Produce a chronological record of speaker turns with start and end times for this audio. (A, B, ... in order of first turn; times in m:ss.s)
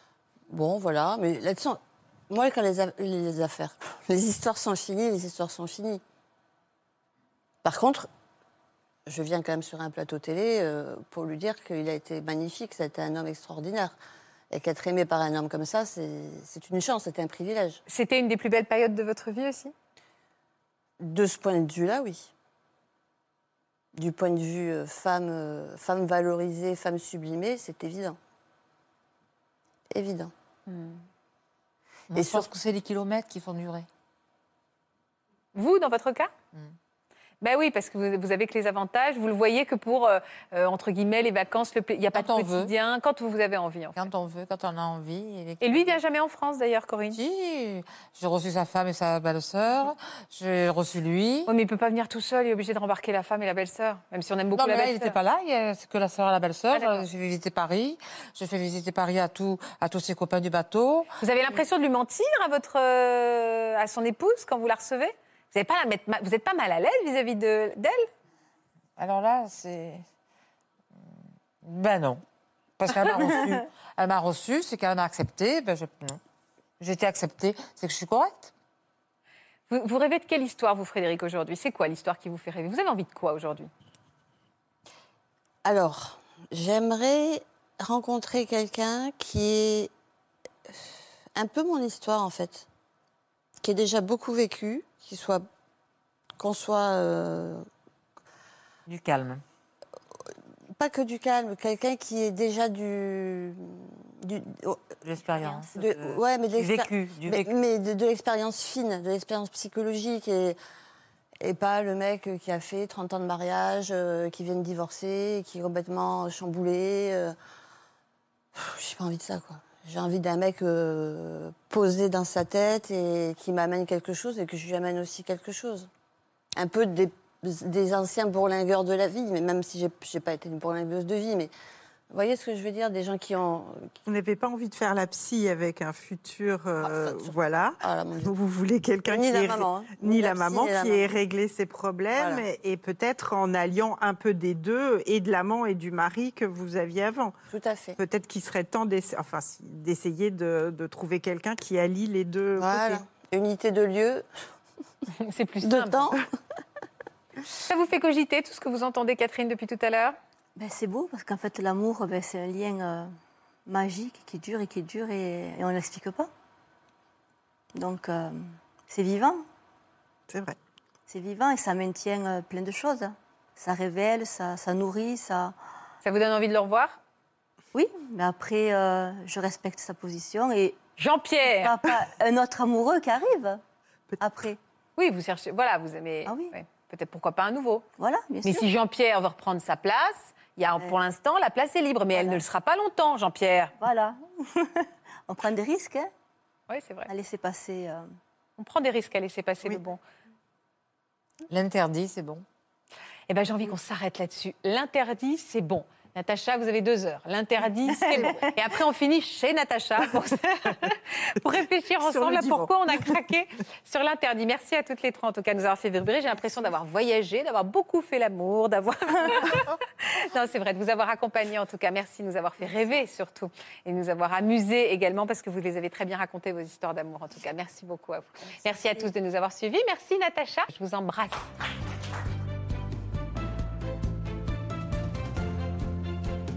0:00.5-0:06.0 A
0:07.6-0:08.1 A
0:09.1-0:14.0 A
0:14.5-0:17.8 A
0:17.9-0:19.7 B
0:21.0-0:22.3 A
0:24.0-0:28.2 A
0:29.9-0:30.3 A
0:30.7-0:31.0 B
0:32.1-0:33.9 C
0:32.2-0:32.5 A
0:35.6-0:36.3 B
0:37.4-0:44.0 B
0:42.1-0:42.7 C
0:44.0-0:45.9 C
0:45.6-0:47.2 B
0:47.1-0:51.5 C
0:51.5-0:55.2 B
0:54.6-1:01.1 C
0:56.7-0:57.1 B
1:01.2-1:08.1 B
1:09.0-1:10.0 C
1:11.6-1:12.2 C
1:12.8-1:16.2 C
1:16.8-1:18.5 C
1:19.7-1:23.7 B
1:25.6-1:29.9 A
1:31.4-1:32.7 A
1:33.6-1:35.4 A
1:36.4-1:37.6 A
1:38.9-1:39.4 C
1:40.8-1:45.0 A
1:45.0-1:47.5 C
1:45.6-1:50.6 A
1:51.4-1:57.4 A
1:58.6-2:05.9 A
2:06.6-2:11.5 A
2:12.1-2:13.9 A
2:14.1-2:27.3 D
2:16.8-2:18.3 A
2:19.1-2:21.1 A
2:22.1-2:22.4 A
2:27.5-2:28.0 A
2:28.0-2:33.0 D
2:32.6-2:34.2 A
2:35.1-2:36.1 B
2:35.6-2:36.3 A
2:37.7-2:40.2 B
2:40.6-2:43.1 E
2:43.7-2:46.3 E
2:47.8-2:49.4 E
2:50.3-2:50.6 D
2:51.1-2:55.6 E
2:56.0-2:57.0 B
2:57.7-3:00.8 E
3:01.0-3:01.8 B
3:01.5-3:03.6 E
3:04.2-3:04.6 E
3:05.0-3:07.9 B
3:06.3-3:06.6 E
3:08.0-3:08.7 E
3:08.4-3:13.8 B
3:12.1-3:12.4 E
3:13.8-3:16.1 E
3:16.7-3:17.1 B
3:17.1-3:18.1 E
3:18.6-3:20.0 B
3:21.5-3:22.4 C
3:23.3-3:51.5 B
3:28.1-3:28.4 D
3:32.0-3:33.1 D